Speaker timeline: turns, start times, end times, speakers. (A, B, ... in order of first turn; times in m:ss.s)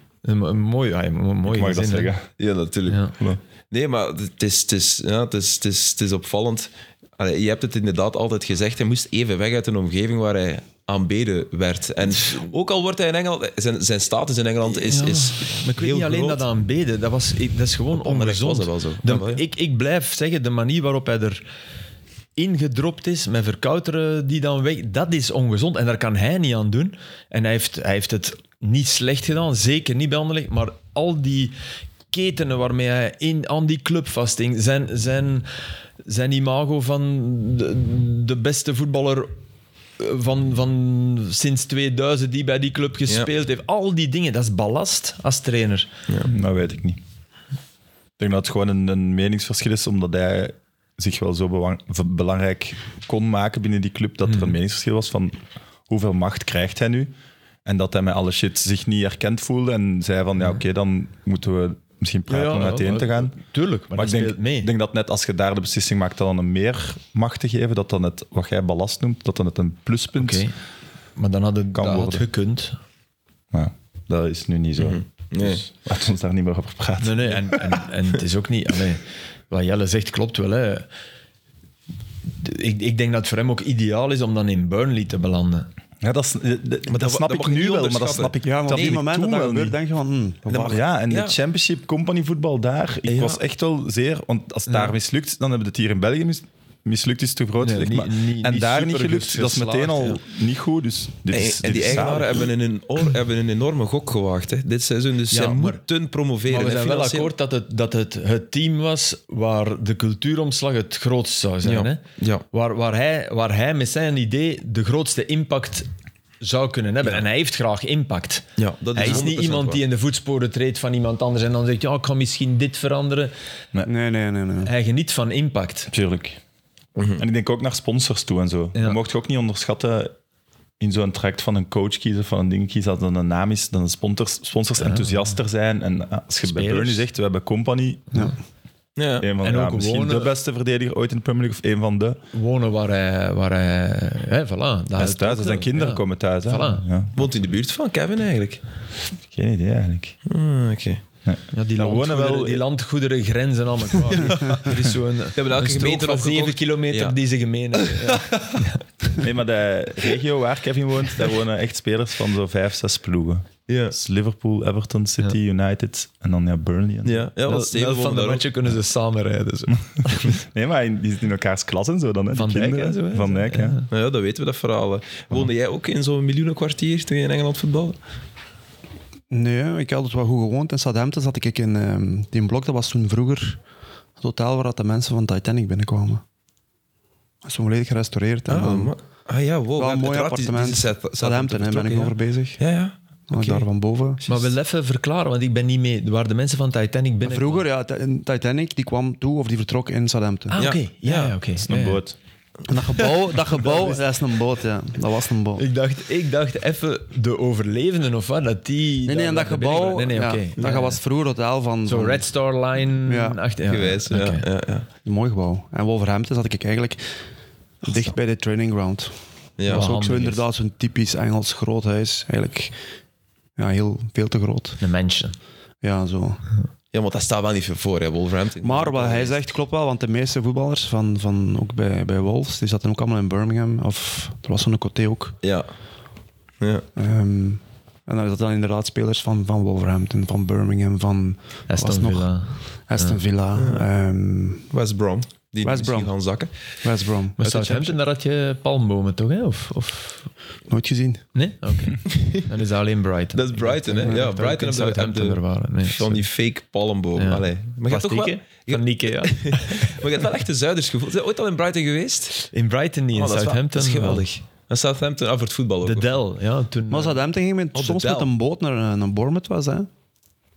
0:00.2-0:02.1 A
0:01.4-0:02.3 B
0:02.4-0:16.4 C
0:02.9-0:03.1 A
0:14.9-0:21.4 A
0:17.9-0:19.4 C
0:22.4-0:31.5 A
0:32.1-0:35.5 A
0:36.0-0:39.4 A
0:40.0-0:45.9 A
0:46.3-0:47.0 B
0:48.2-0:57.1 B
0:54.2-0:54.5 A
0:57.6-1:03.4 B
1:02.3-1:04.7 A
1:03.9-1:10.4 B
1:10.1-1:10.6 A
1:11.2-1:12.8 A
1:11.7-1:12.2 B
1:13.5-1:17.8 B
1:14.8-1:15.6 C
1:17.0-1:20.9 A
1:22.4-1:25.7 A
1:26.0-1:29.8 B
1:26.9-1:29.0 C
1:28.4-1:30.8 D
1:30.5-1:31.4 C
1:30.6-1:42.5 B
1:33.1-1:33.4 C
1:37.6-1:40.2 A
1:41.3-1:47.3 C
1:45.3-1:45.8 A
1:46.5-1:55.9 A
1:51.6-1:52.4 C
1:56.4-2:03.3 A
1:58.6-1:59.8 C
2:03.8-2:04.7 D
2:04.6-2:05.9 A
2:05.9-2:06.4 B
2:07.0-2:07.2 C
2:07.2-2:10.1 B
2:10.8-2:18.1 B
2:14.8-2:15.3 A
2:16.4-2:17.0 A
2:19.0-2:19.2 C
2:19.2-2:22.2 B
2:19.4-2:20.3 A
2:22.3-2:26.8 A
2:25.0-2:27.1 B
2:27.1-2:28.6 C
2:29.3-2:30.2 B
2:30.2-2:31.0 C
2:31.2-2:32.6 B
2:31.5-2:38.8 A
2:35.4-2:37.2 C
2:37.7-2:38.6 C
2:39.2-2:47.3 B
2:43.7-2:44.0 C
2:47.0-2:48.4 C
2:47.4-2:50.4 A
2:50.2-2:53.8 B
2:52.3-2:53.9 A
2:53.9-2:58.0 C
2:59.3-3:03.6 D
3:04.2-3:06.2 D
3:07.4-3:08.9 D
3:08.5-3:13.7 C
3:09.8-3:12.6 D
3:13.3-3:14.2 D
3:14.3-3:17.6 A
3:17.2-3:20.6 D
3:20.5-3:22.0 A
3:20.6-3:21.4 C
3:21.6-3:22.2 B
3:22.7-3:25.6 D
3:23.6-3:24.0 A
3:25.6-3:31.0 A
3:29.0-3:32.3 D
3:31.8-3:34.4 A
3:33.0-3:33.4 D
3:33.6-3:34.8 C
3:35.0-3:37.2 D
3:37.8-3:42.8 D
3:39.6-3:39.9 C
3:39.7-3:40.4 A
3:43.6-3:44.8 D
3:44.8-3:45.4 A
3:45.8-3:46.4 D
3:46.9-3:49.4 C
3:48.6-3:55.4 D
3:55.4-3:55.7 C
3:56.6-3:56.8 C
3:57.0-4:04.7 D
4:01.7-4:03.2 A
4:03.5-4:03.9 C
4:04.7-4:06.8 C
4:05.6-4:07.4 D
4:07.4-4:10.3 A
4:07.4-4:07.9 C
4:10.7-4:11.2 D
4:11.3-4:16.2 A
4:12.1-4:12.4 C
4:13.3-4:22.5 C
4:17.2-4:20.0 A
4:22.4-4:24.2 A
4:23.1-4:26.2 C
4:25.8-4:27.2 A
4:26.9-4:29.9 D
4:27.7-4:28.3 C